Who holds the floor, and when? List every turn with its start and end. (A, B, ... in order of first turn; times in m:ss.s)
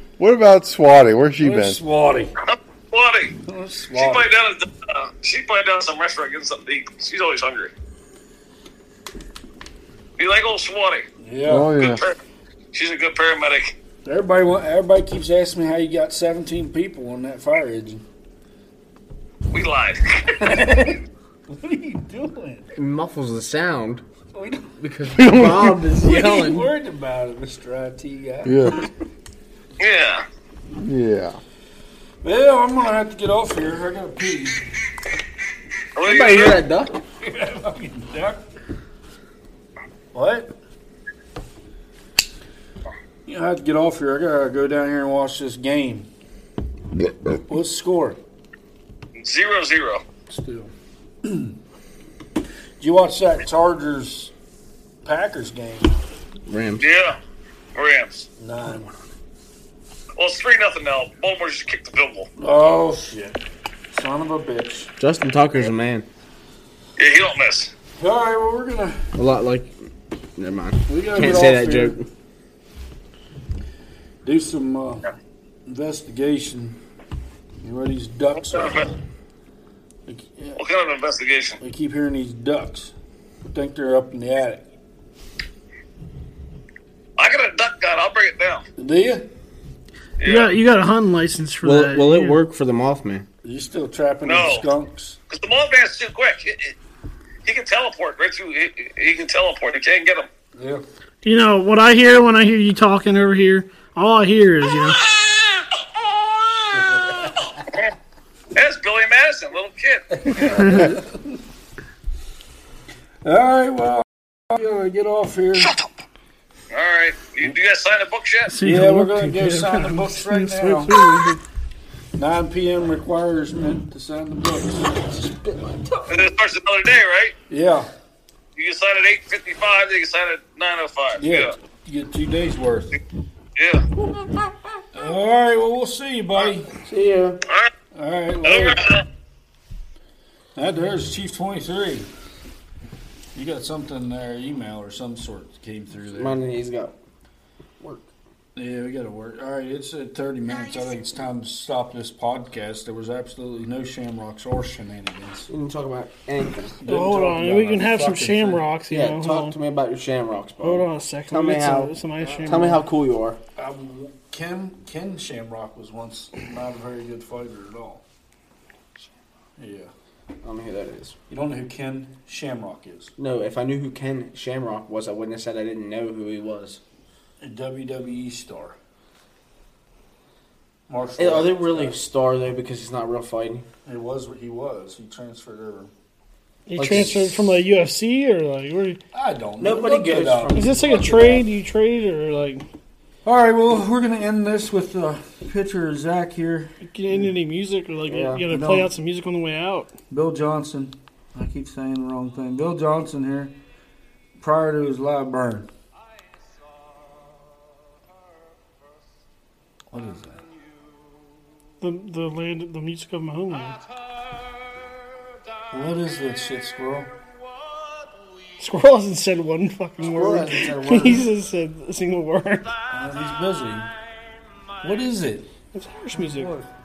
0:00.2-0:01.8 A
0:01.4-0:02.3 B
0:02.4-0:03.4 C
0:03.4-0:04.3 B
0:03.9-0:07.7 C
0:10.2-0:11.0 C
0:11.2-0:11.7 B
0:11.4-0:12.0 A
0:11.8-0:12.2 C
0:12.7-0:13.7 C
0:14.0-0:18.0 B
0:19.5-0:20.3 C
0:20.3-0:22.7 B
0:22.7-0:24.0 D
0:24.3-0:24.8 B
0:24.8-0:26.7 D
0:25.1-0:25.8 A
0:26.0-0:28.8 B
0:28.4-0:28.8 A
0:29.8-0:30.2 C
0:30.8-0:31.4 A
0:32.2-0:34.6 B
0:36.0-0:36.7 C
0:36.0-0:37.0 D
0:37.2-0:38.4 B
0:40.1-0:40.5 B
0:43.2-0:46.1 B
0:47.4-0:48.2 B
0:49.2-0:50.0 C
0:50.3-0:50.7 B
0:51.2-0:51.6 B
0:52.8-0:54.3 B
0:55.0-0:55.9 B
0:56.5-0:56.9 D
0:56.8-0:57.2 C
0:57.7-0:58.3 C
0:58.4-0:58.9 B
1:00.2-1:02.3 C
1:02.4-1:03.4 B
1:03.9-1:04.9 B
1:05.0-1:06.0 D
1:07.0-1:07.7 C
1:08.0-1:09.1 B
1:09.1-1:09.8 D
1:10.4-1:12.1 D
1:10.9-1:12.0 B
1:14.2-1:15.1 B
1:15.7-1:16.8 B
1:17.6-1:18.9 B
1:18.5-1:18.9 C
1:20.1-1:20.6 B
1:20.6-1:21.6 C
1:21.6-1:22.9 B
1:23.5-1:24.7 B
1:27.2-1:28.6 C
1:28.8-1:29.3 B
1:30.2-1:30.5 C
1:30.2-1:32.4 E
1:31.6-1:33.2 D
1:33.4-1:35.2 B
1:34.2-1:34.7 C
1:35.3-1:36.8 C
1:37.4-1:40.3 C
1:40.6-1:40.8 B
1:41.2-1:45.0 E
1:45.0-1:45.5 C
1:46.6-1:47.9 C
1:46.7-1:47.3 B
1:48.5-1:50.8 C
1:50.2-1:51.4 B
1:50.4-1:51.0 E
1:53.2-1:55.7 B
1:56.7-1:58.5 C
1:58.5-2:01.4 E
1:58.6-2:01.2 B
2:02.1-2:06.3 B
2:06.1-2:07.3 C
2:07.5-2:07.9 B
2:08.6-2:11.5 C
2:11.2-2:13.0 B
2:13.6-2:13.8 C
2:14.9-2:16.7 B
2:16.8-2:17.4 D
2:17.4-2:17.7 C
2:17.9-2:18.8 B
2:18.4-2:19.0 C
2:20.6-2:22.1 B
2:23.3-2:26.4 B
2:26.1-2:26.9 D
2:27.8-2:28.0 D
2:28.6-2:35.5 B
2:35.5-2:36.8 D
2:36.8-2:38.6 B
2:36.8-2:39.6 E
2:37.8-2:43.4 D
2:40.6-2:42.8 E
2:42.2-2:42.8 B
2:43.6-2:48.0 B
2:49.6-2:49.9 B
2:50.4-2:51.2 D
2:51.3-2:53.1 B
2:53.2-2:56.8 D
2:57.4-2:58.8 B
3:00.9-3:02.0 B
3:01.2-3:03.6 D
3:03.8-3:05.9 B
3:06.7-3:09.0 E
3:06.8-3:07.5 D
3:09.1-3:11.4 B
3:09.6-3:11.4 D
3:10.5-3:12.6 E
3:13.2-3:17.3 B
3:16.8-3:19.9 E
3:18.1-3:18.4 D
3:18.5-3:18.9 B
3:20.1-3:23.5 B
3:24.4-3:25.7 B
3:29.9-3:30.4 B
3:31.8-3:33.8 E
3:35.7-3:37.1 B
3:38.6-3:42.7 E
3:40.0-3:41.3 D
3:42.9-3:43.9 B
3:44.8-3:45.5 B
3:45.7-3:46.5 E
3:46.1-3:46.7 B